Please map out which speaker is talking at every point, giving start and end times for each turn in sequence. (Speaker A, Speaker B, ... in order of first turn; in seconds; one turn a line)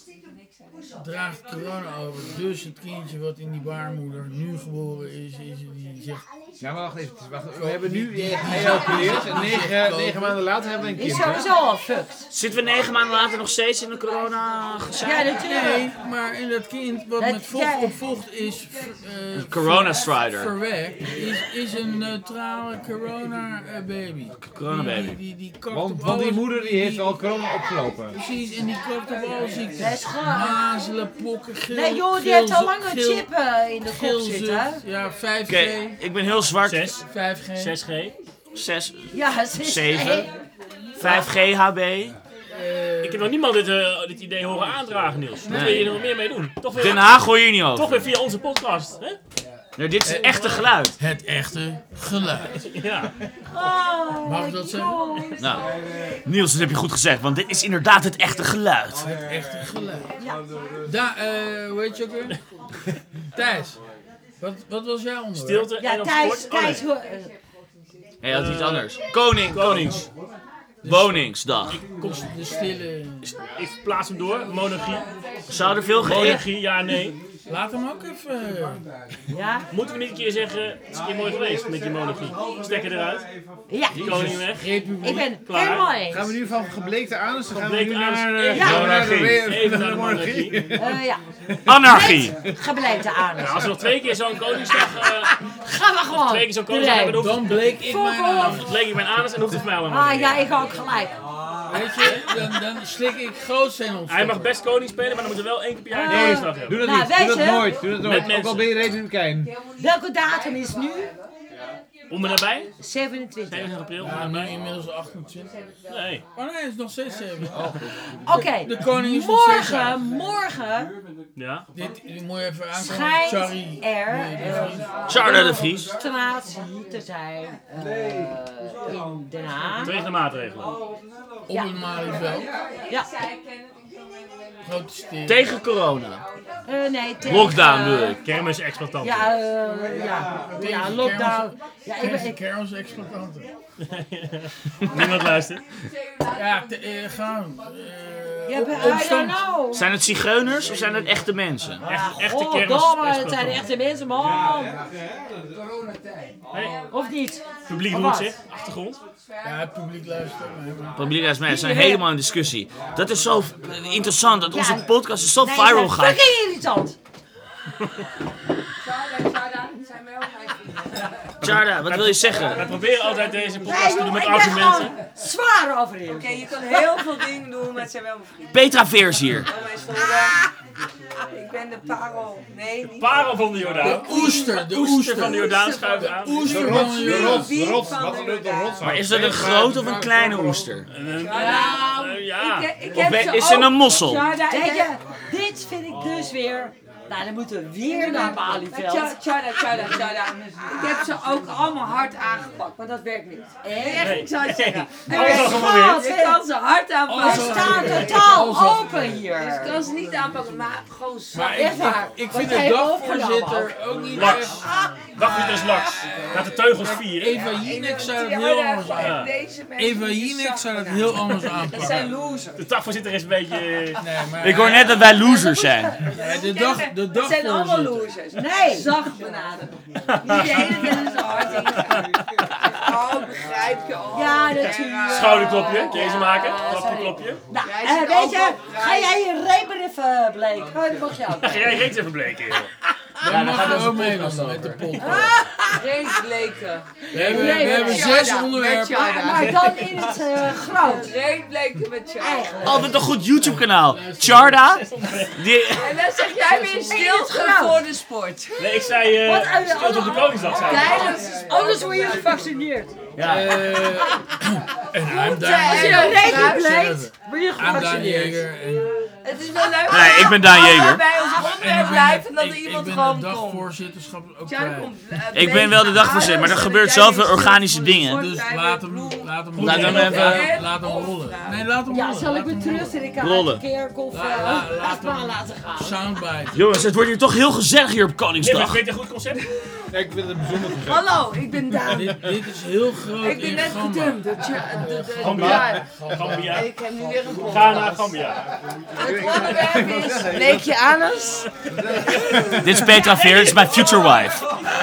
Speaker A: 1.0-6.2
Speaker B: 6.6-11.5
Speaker A: 7.5-10.4
Speaker C: 10.9-12.3
Speaker D: 12.3-15.4
Speaker C: 15.0-15.9
Speaker A: 15.3-27.2
Speaker C: 17.2-18.0
Speaker D: 19.3-20.5
Speaker D: 24.4-25.2
Speaker B: 25.7-28.2
Speaker A: 28.1-33.3
Speaker C: 29.8-30.6
Speaker C: 31.7-34.8
Speaker A: 33.8-36.0
Speaker D: 35.5-37.0
Speaker E: 36.6-37.0
Speaker A: 37.1-37.8
Speaker E: 37.5-38.1
Speaker D: 38.5-40.3
Speaker C: 39.1-40.3
Speaker D: 41.0-42.1
Speaker A: 42.5-43.3
Speaker E: 43.0-49.2
Speaker D: 45.5-45.9
Speaker D: 46.8-48.1
Speaker D: 49.8-50.9
Speaker A: 50.0-52.5
Speaker E: 52.7-53.1
Speaker C: 53.5-55.7
Speaker A: 54.2-55.3
Speaker D: 55.4-55.7
Speaker D: 56.2-59.1
Speaker A: 59.0-60.1
Speaker C: 60.2-60.4
Speaker A: 60.8-62.4
Speaker A: 63.3-63.8
Speaker A: 64.4-65.7
Speaker E: 65.3-66.8
Speaker C: 65.8-67.3
Speaker D: 68.2-70.0
Speaker E: 68.2-70.0
Speaker A: 70.8-71.4
Speaker D: 70.8-71.8
Speaker E: 71.7-72.3
Speaker A: 72.0-73.4
Speaker E: 73.2-75.0
Speaker D: 75.5-76.4
Speaker E: 76.0-77.2
Speaker C: 76.1-76.4
Speaker A: 77.5-78.8
Speaker C: 79.3-79.7
Speaker E: 79.7-83.3
Speaker C: 83.7-84.3
Speaker E: 83.9-84.7
Speaker A: 84.0-85.3
Speaker C: 84.9-86.3
Speaker E: 85.4-85.8
Speaker B: 86.1-92.5
Speaker E: 87.5-90.6
Speaker C: 88.5-89.0
Speaker D: 88.5-89.4
Speaker C: 90.7-91.2
Speaker D: 91.7-92.4
Speaker C: 91.8-93.7
Speaker E: 93.4-95.3
Speaker C: 94.7-98.7
Speaker E: 96.1-97.8
Speaker A: 97.1-98.6
Speaker E: 98.4-100.7
Speaker C: 99.8-101.2
Speaker A: 101.7-104.5
Speaker E: 102.0-102.2
Speaker E: 104.1-107.0
Speaker C: 105.9-107.9
Speaker B: 106.0-109.5
Speaker E: 107.9-108.8
Speaker F: 109.4-111.1
Speaker C: 109.8-111.1
Speaker E: 112.1-112.7
Speaker C: 112.8-113.8
Speaker E: 113.5-114.5
Speaker A: 114.0-115.5
Speaker E: 115.9-116.2
Speaker A: 116.3-117.8
Speaker C: 118.2-120.9
Speaker A: 118.5-120.0
Speaker E: 121.3-121.7
Speaker A: 121.7-124.9
Speaker C: 122.7-130.0
Speaker F: 124.5-125.9
Speaker D: 125.1-125.9
Speaker E: 129.8-130.7
Speaker A: 131.5-132.5
Speaker C: 131.5-131.8
Speaker F: 131.9-133.9
Speaker A: 134.6-135.5
Speaker D: 135.2-136.2
Speaker C: 136.7-138.2
Speaker D: 137.2-138.2
Speaker E: 138.2-139.3
Speaker C: 139.0-142.4
Speaker A: 140.2-143.5
Speaker E: 143.8-145.6
Speaker F: 146.0-146.6
Speaker A: 146.3-149.4
Speaker C: 148.5-149.9
Speaker F: 148.9-149.3
Speaker D: 149.7-151.8
Speaker C: 151.8-154.8
Speaker E: 151.8-153.6
Speaker E: 156.5-156.8
Speaker C: 156.9-158.3
Speaker E: 157.7-159.0
Speaker A: 159.4-161.1
Speaker D: 160.9-166.2
Speaker C: 161.4-162.0
Speaker C: 164.5-166.9
Speaker F: 168.8-171.3
Speaker D: 171.4-172.7
Speaker E: 171.4-174.9
Speaker F: 172.7-174.2
Speaker C: 173.6-177.3
Speaker F: 176.0-180.4
Speaker D: 178.5-179.5
Speaker C: 179.9-180.5
Speaker F: 181.3-186.1
Speaker E: 182.9-186.9
Speaker A: 183.8-187.5
Speaker B: 186.5-190.8
Speaker F: 186.6-188.9
Speaker D: 188.8-190.9
Speaker E: 190.9-192.7
Speaker F: 191.1-194.9
Speaker C: 191.3-192.1
Speaker D: 192.9-194.3
Speaker C: 194.3-199.2
Speaker F: 197.8-208.2
Speaker C: 203.6-204.2
Speaker E: 204.0-206.0
Speaker C: 205.1-206.4
Speaker A: 207.1-209.1
Speaker C: 207.2-209.8
Speaker E: 207.9-208.3
Speaker F: 209.3-213.0
Speaker A: 211.3-214.6
Speaker C: 211.6-213.7
Speaker E: 214.1-214.5
Speaker E: 215.2-217.4
Speaker F: 215.3-216.4
Speaker A: 217.1-222.1
Speaker F: 217.3-222.6
Speaker E: 219.0-219.3
Speaker E: 222.6-224.0
Speaker A: 224.0-225.0
Speaker D: 224.4-226.0
Speaker C: 224.7-225.9
Speaker F: 226.0-237.0
Speaker A: 226.1-228.1
Speaker C: 228.3-229.1
Speaker E: 230.1-231.0
Speaker C: 230.2-231.2
Speaker E: 231.7-232.0
Speaker C: 234.1-241.9
Speaker E: 235.1-237.4
Speaker F: 237.5-239.2
Speaker E: 241.4-242.7
Speaker A: 243.2-245.4
Speaker D: 243.2-245.2
Speaker C: 243.6-243.8
Speaker C: 244.9-246.2
Speaker F: 245.7-253.0
Speaker A: 247.1-249.3
Speaker C: 247.1-251.1
Speaker C: 252.2-253.1
Speaker D: 252.6-254.8
Speaker A: 253.4-254.8
Speaker E: 254.7-255.4
Speaker D: 255.3-256.0
Speaker F: 255.7-259.0
Speaker A: 256.4-257.0
Speaker C: 256.8-257.9
Speaker E: 258.6-261.2
Speaker C: 259.2-262.9
Speaker F: 260.3-262.6
Speaker D: 263.1-263.7
Speaker A: 263.2-268.9
Speaker C: 263.6-264.2
Speaker C: 265.1-268.5
Speaker F: 265.1-266.9
Speaker F: 269.2-273.7
Speaker D: 269.9-271.1
Speaker A: 271.5-274.9
Speaker F: 274.4-281.7
Speaker D: 275.3-278.3
Speaker A: 278.1-283.0
Speaker E: 279.6-280.5
Speaker D: 279.6-280.6
Speaker C: 281.9-286.0
Speaker D: 283.2-283.6
Speaker A: 284.1-286.9
Speaker D: 286.5-288.8
Speaker E: 288.4-289.4
Speaker B: 289.9-291.1
Speaker F: 290.7-292.3
Speaker A: 291.9-296.6
Speaker F: 293.1-295.9
Speaker D: 295.2-295.7
Speaker E: 296.0-296.7
Speaker F: 296.4-298.2
Speaker E: 297.4-298.4
Speaker F: 298.9-301.4
Speaker B: 299.0-300.7
Speaker B: 301.7-302.9
Speaker E: 302.1-302.5
Speaker D: 302.6-304.4
Speaker F: 302.9-304.3